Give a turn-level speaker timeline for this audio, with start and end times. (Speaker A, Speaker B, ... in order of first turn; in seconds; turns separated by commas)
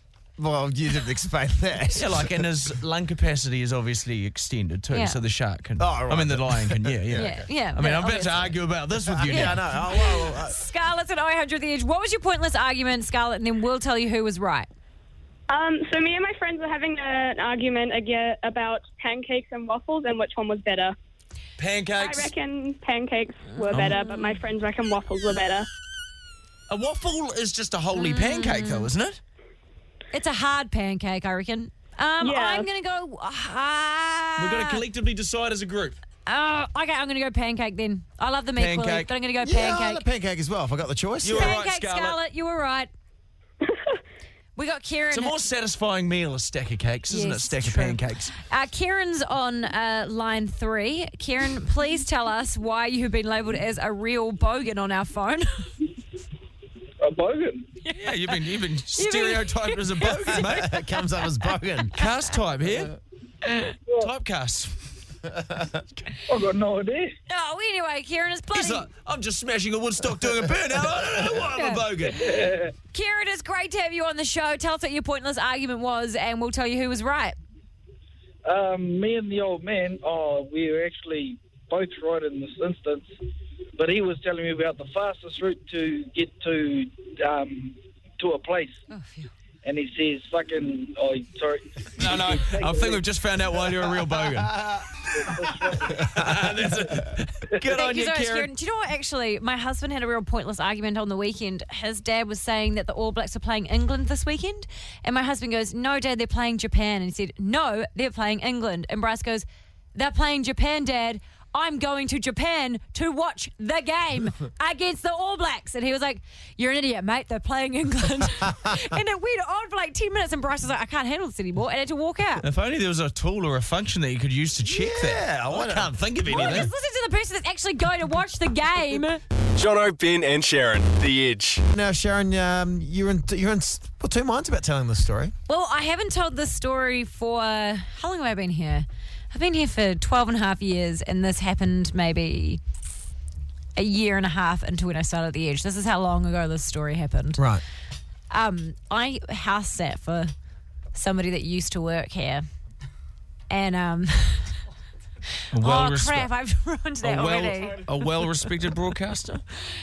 Speaker A: 0.4-2.3, Speaker B: 1.9-9.6, Speaker C: 4.9-5.2, Speaker A: 5.8-7.5, Speaker C: 7.1-8.6, Speaker A: 9.0-10.6, Speaker C: 9.3-14.7, Speaker D: 15.5-20.9, Speaker B: 21.6-22.3, Speaker D: 22.0-25.7, Speaker C: 23.5-24.3, Speaker B: 23.7-24.0, Speaker B: 26.7-29.2, Speaker C: 27.9-28.9, Speaker C: 30.1-34.8, Speaker D: 32.2-32.6, Speaker B: 34.4-36.0, Speaker C: 36.2-40.0, Speaker B: 38.5-39.1, Speaker A: 39.4-41.6, Speaker B: 41.2-42.2, Speaker C: 41.4-42.9, Speaker C: 44.5-45.4, Speaker B: 45.1-48.3, Speaker C: 47.1-55.7, Speaker E: 57.0-57.7, Speaker B: 58.0-60.8, Speaker C: 58.9-60.2, Speaker A: 60.3-62.0, Speaker B: 62.0-63.0, Speaker C: 63.5-63.7, Speaker B: 63.9-64.8, Speaker A: 65.3-65.8, Speaker E: 66.3-67.1, Speaker C: 67.3-68.9, Speaker B: 68.5-72.3, Speaker C: 71.5-72.1, Speaker E: 72.2-72.7, Speaker C: 72.9-77.3, Speaker E: 78.4-83.1, Speaker E: 83.8-88.8, Speaker C: 88.9-89.3, Speaker E: 89.6-93.1, Speaker B: 92.0-94.6, Speaker A: 94.5-94.8, Speaker E: 95.1-96.0, Speaker A: 95.9-96.4, Speaker B: 95.9-98.5, Speaker C: 97.7-122.4, Speaker B: 122.4-126.7, Speaker A: 124.6-126.7, Speaker C: 126.3-129.2, Speaker F: 129.6-131.6, Speaker A: 131.7-135.3, Speaker C: 135.5-142.6, Speaker C: 143.8-147.4, Speaker A: 147.4-147.6, Speaker C: 148.3-150.3, Speaker C: 150.9-152.4, Speaker C: 153.5-154.5, Speaker B: 155.5-156.3, Speaker C: 155.6-157.9, Speaker B: 157.0-159.4